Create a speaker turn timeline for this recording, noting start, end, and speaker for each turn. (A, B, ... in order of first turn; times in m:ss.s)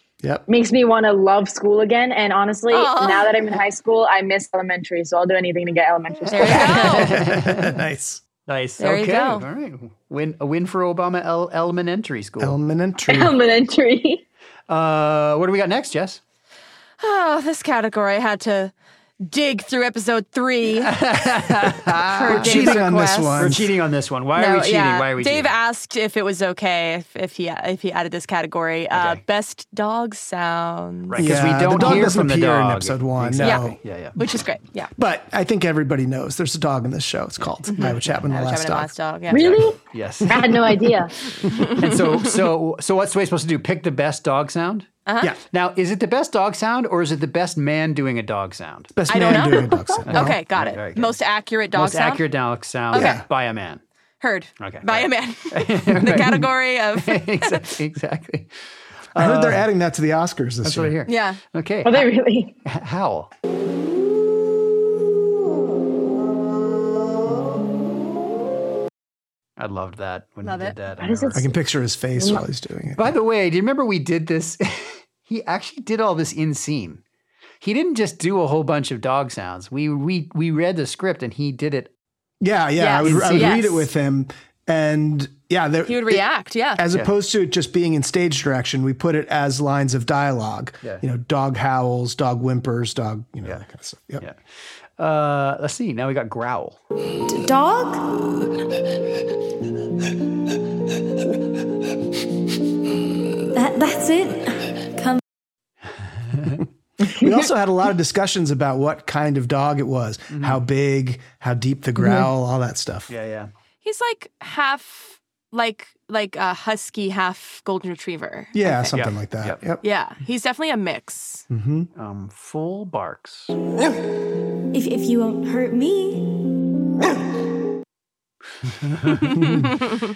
0:00.5-0:06.9 A
0:02.7-0:03.3 B
0:06.2-0:07.8 C
0:06.3-0:07.1 B
0:06.9-0:08.2 D
0:08.5-0:12.6 C
0:08.8-0:09.4 B
0:12.4-0:13.4 D
0:13.0-0:14.2 A
0:14.7-0:16.2 C
0:17.0-0:21.0 B
0:20.8-0:25.5 C
0:22.0-0:23.5 B
0:22.2-0:23.7 D
0:24.3-0:31.3 B
0:28.9-0:29.2 C
0:31.1-0:34.2 C
0:31.2-0:33.8 D
0:33.4-0:34.9 B
0:35.0-0:38.9 D
0:37.7-0:39.6 B
0:39.3-0:40.7 C
0:39.3-0:41.1 A
0:41.5-0:44.9 C
0:45.0-0:45.3 B
0:45.5-0:48.9 C
0:48.9-0:50.4 D
0:49.1-0:52.2 B
0:50.1-0:51.2 C
0:51.7-0:53.8 C
0:52.9-0:53.2 B
0:52.9-0:53.2 D
0:54.2-0:57.6 B
0:54.6-0:58.5 C
0:59.1-0:59.6 C
0:59.1-1:01.0 D
1:00.6-1:02.1 C
1:01.0-1:01.4 B
1:01.8-1:02.5 A
1:02.6-1:03.3 C
1:09.6-1:11.4 C
1:10.4-1:10.7 B
1:11.0-1:11.5 A
1:11.3-1:13.1 D
1:12.2-1:12.4 A
1:13.0-1:17.0 C
1:17.6-1:21.9 C
1:22.4-1:34.2 D
1:22.8-1:23.9 B
1:23.0-1:23.6 C
1:25.8-1:26.8 B
1:35.0-1:36.8 C
1:37.3-1:38.2 E
1:43.5-1:45.2 E
1:46.3-1:46.6 C
1:47.1-1:47.3 A
1:47.1-1:53.1 D
1:50.3-1:50.6 C
1:53.1-1:53.5 C
1:53.8-1:58.9 B
1:58.5-1:59.8 D
1:58.9-1:59.6 C
1:59.8-2:01.4 B
2:01.5-2:01.9 D
2:01.9-2:03.5 C
2:04.7-2:06.5 E
2:08.8-2:09.6 C
2:09.3-2:10.0 B